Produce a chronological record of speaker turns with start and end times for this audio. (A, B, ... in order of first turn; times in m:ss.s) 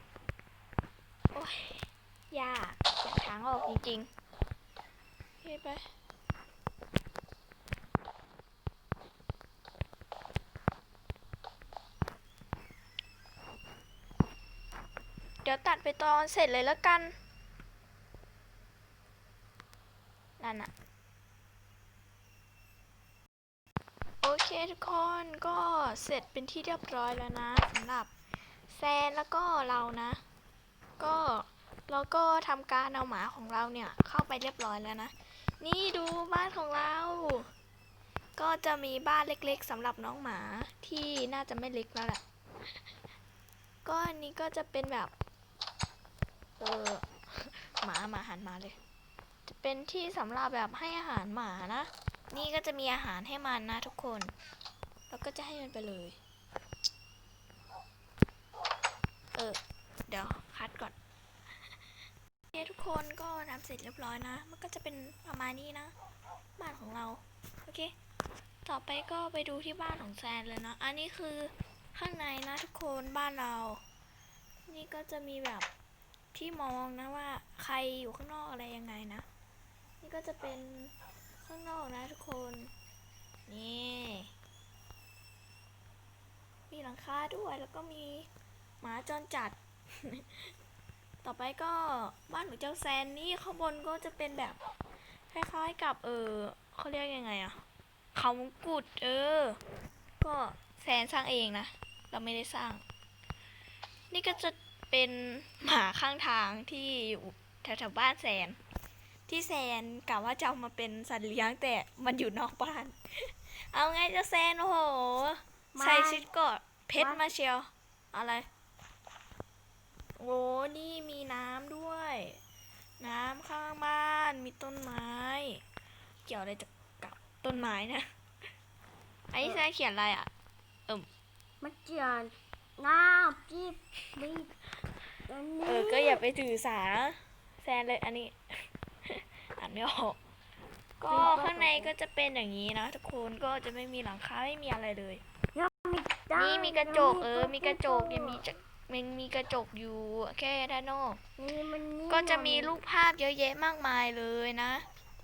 0:01.3-0:04.1 A
0:05.4-0:05.8 A
0:15.4-0:17.2 A
0:20.4-0:20.7 A
0:24.2-0:28.1 A
0:28.7-0:30.2 A
0:31.0-0:37.5 A
0:38.4-0:42.2 A
0:43.8-0:45.1 A
0:46.6-0:48.8 A
0:49.4-0:54.3 A
0:55.1-0:56.2 A
0:59.3-1:00.9 A
1:02.5-1:05.9 A
1:06.6-1:07.9 A
1:08.6-1:13.8 A
1:14.7-1:15.7 A
1:16.3-1:19.2 A
1:20.0-1:22.7 A
1:23.5-1:24.3 A
1:26.7-1:28.3 A
1:28.8-1:30.5 A
1:31.2-1:34.6 A
1:35.3-1:37.6 A
1:38.1-1:39.6 A
1:40.2-1:42.8 A
1:44.1-1:48.6 A
1:49.3-1:58.5 A
1:55.7-1:56.2 B
1:57.0-1:57.2 B
2:00.2-2:02.4 A
2:03.0-2:05.6 A
2:06.2-2:08.0 A
2:09.3-2:10.3 A
2:11.6-2:14.5 B
2:15.3-2:16.2 B
2:15.6-2:18.4 A
2:19.0-2:20.2 A
2:21.0-2:25.2 A
2:21.1-2:21.9 B
2:25.5-2:28.4 B
2:26.4-2:31.2 A
2:31.4-2:32.7 B
2:32.1-2:34.8 A